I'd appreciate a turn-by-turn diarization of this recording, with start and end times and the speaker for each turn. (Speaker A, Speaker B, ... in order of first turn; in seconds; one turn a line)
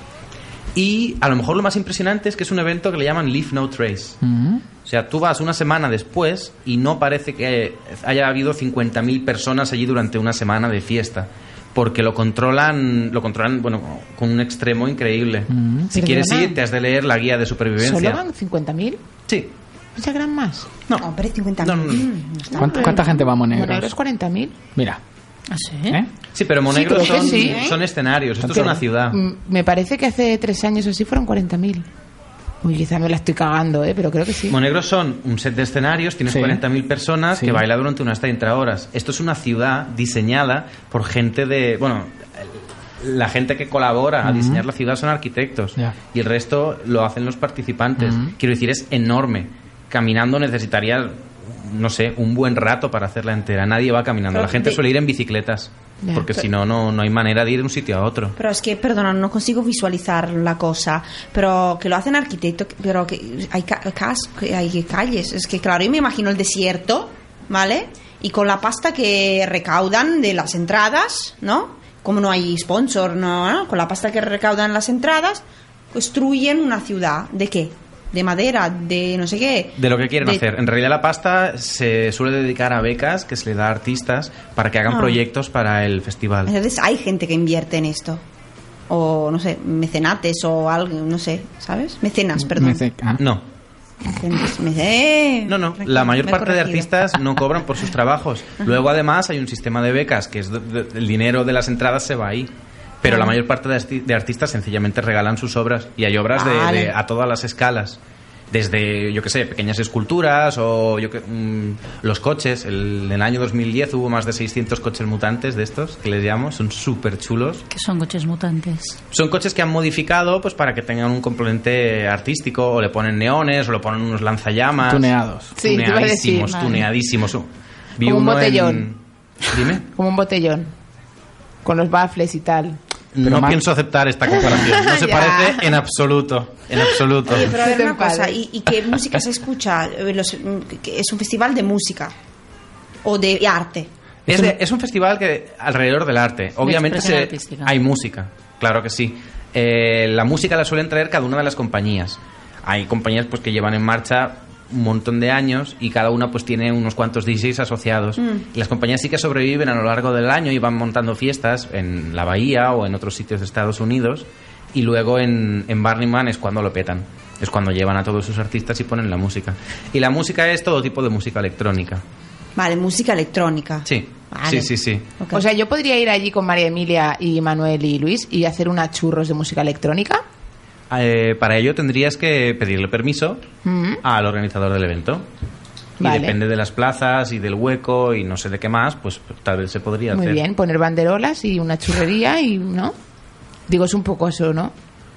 Speaker A: 0.7-4.2
Speaker B: 4.2-4.6
Speaker A: 4.8-18.2
Speaker B: 15.5-15.9
Speaker C: 15.9-16.6
Speaker C: 17.8-19.0
Speaker C: 19.9-20.7
Speaker D: 21.0-22.9
Speaker A: 21.6-22.1
Speaker C: 22.5-24.6
Speaker B: 22.5-23.9
Speaker E: 25.5-26.0
Speaker A: 26.3-29.2
Speaker C: 26.7-27.7
Speaker D: 26.8-27.8
Speaker C: 28.4-31.9
Speaker C: 32.6-34.5
Speaker A: 34.5-58.4
Speaker B: 36.3-36.6
Speaker B: 37.3-37.6
Speaker B: 44.2-44.6
Speaker B: 48.0-48.3
Speaker D: 54.3-54.8
Speaker C: 56.0-56.4
Speaker D: 58.4-80.4
Speaker A: 79.8-86.5
Speaker D: 84.9-85.2
Speaker D: 86.5-88.2
Speaker D: 88.9-92.8
Speaker B: 92.4-93.2
Speaker A: 93.2-93.5
Speaker D: 94.0-96.9
Speaker A: 95.5-102.5
Speaker A: 103.0-108.0
Speaker D: 103.0-103.3
Speaker D: 106.3-106.9
Speaker A: 108.5-117.6
Speaker E: 117.7-119.0
Speaker A: 119.1-129.8
Speaker B: 124.8-125.5
Speaker C: 125.5-126.7
Speaker E: 126.5-126.8
Speaker C: 128.0-128.9
Speaker C: 129.9-130.7
Speaker C: 131.6-132.8
Speaker A: 133.1-137.5
Speaker B: 133.2-133.6
Speaker C: 134.3-135.7
Speaker D: 137.2-142.1
Speaker C: 137.5-138.4
Speaker D: 143.0-143.9
Speaker A: 144.3-172.0
Speaker B: 144.3-144.5
Speaker E: 146.6-147.7
Speaker D: 158.2-158.4
Speaker D: 172.6-175.4
Speaker A: 173.9-175.1
Speaker C: 175.3-180.2
Speaker A: 180.9-183.4
Speaker C: 183.6-184.0
Speaker A: 184.0-185.2
Speaker C: 186.0-186.3
Speaker A: 186.0-190.4
Speaker C: 190.1-192.9
Speaker C: 193.7-194.7